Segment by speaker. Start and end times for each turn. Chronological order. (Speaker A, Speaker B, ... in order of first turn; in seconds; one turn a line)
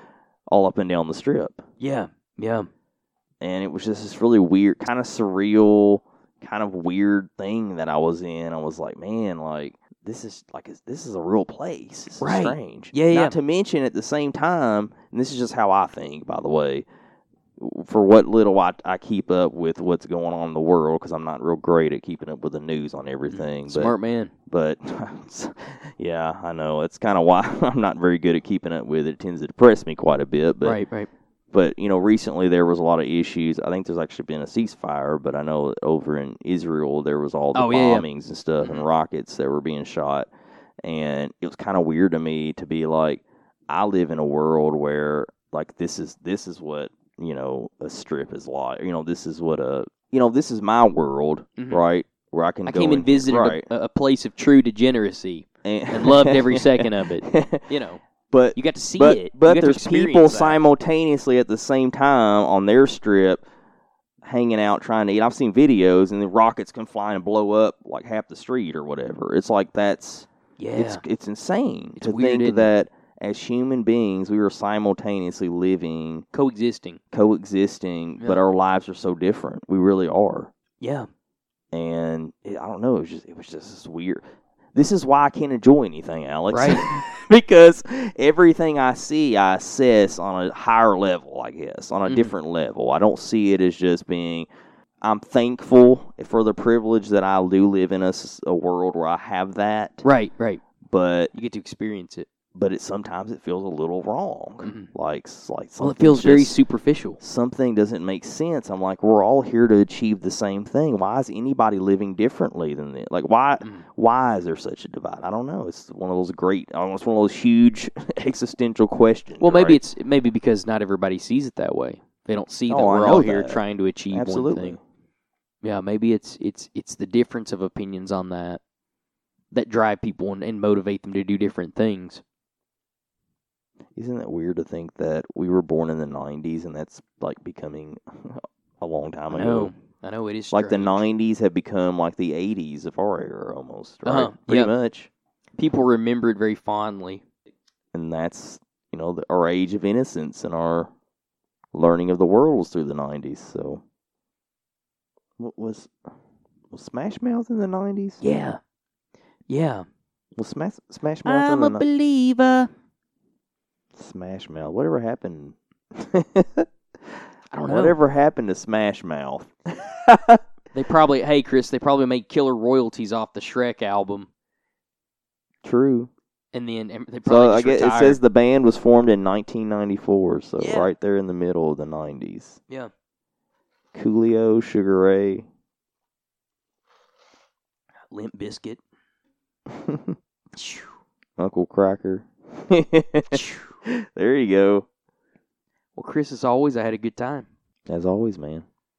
Speaker A: 0.5-1.6
Speaker B: 1.8-2.7
Speaker A: 3.4-16.9
Speaker B: 12.2-13.4
Speaker A: 17.6-23.9
Speaker B: 23.3-24.3
Speaker A: 24.5-30.8
Speaker B: 30.6-31.1
Speaker A: 31.5-40.3
Speaker B: 37.5-38.1
Speaker A: 40.8-53.7
Speaker B: 51.6-51.8
Speaker B: 52.7-58.0
Speaker A: 55.6-57.7
Speaker A: 58.3-63.4
Speaker B: 58.6-60.6
Speaker A: 64.2-76.3
Speaker B: 70.6-71.0
Speaker B: 72.0-72.7
Speaker B: 76.3-77.0
Speaker A: 77.1-80.5
Speaker B: 80.8-81.1
Speaker A: 81.7-84.2
Speaker A: 84.8-94.5
Speaker B: 86.5-86.9
Speaker B: 92.1-92.3
Speaker A: 95.0-100.0
Speaker B: 100.0-100.6
Speaker A: 100.8-101.3
Speaker B: 101.3-102.3
Speaker A: 102.5-106.6
Speaker B: 104.6-104.9
Speaker B: 105.8-107.2
Speaker A: 107.2-119.8
Speaker B: 119.4-124.8
Speaker A: 122.7-123.6
Speaker A: 124.1-124.8
Speaker B: 125.6-128.6
Speaker B: 129.5-132.2
Speaker A: 134.0-139.7
Speaker B: 139.3-141.0
Speaker A: 140.5-145.1
Speaker B: 144.1-144.7
Speaker B: 145.6-147.2
Speaker A: 147.9-150.9
Speaker A: 151.7-153.8
Speaker A: 155.4-155.9
Speaker A: 156.7-158.2
Speaker B: 158.2-158.6
Speaker B: 159.5-159.9
Speaker A: 160.4-161.8
Speaker B: 161.2-162.7
Speaker A: 163.9-170.4
Speaker B: 167.5-168.0
Speaker B: 170.8-174.3
Speaker A: 175.6-176.1
Speaker B: 176.5-178.2
Speaker A: 177.2-182.6
Speaker B: 180.6-180.9
Speaker A: 183.9-185.5
Speaker B: 188.1-188.8
Speaker A: 189.7-190.2
Speaker B: 190.6-190.9
Speaker A: 191.4-194.9
Speaker B: 193.3-193.7
Speaker B: 196.0-197.5
Speaker A: 197.9-198.7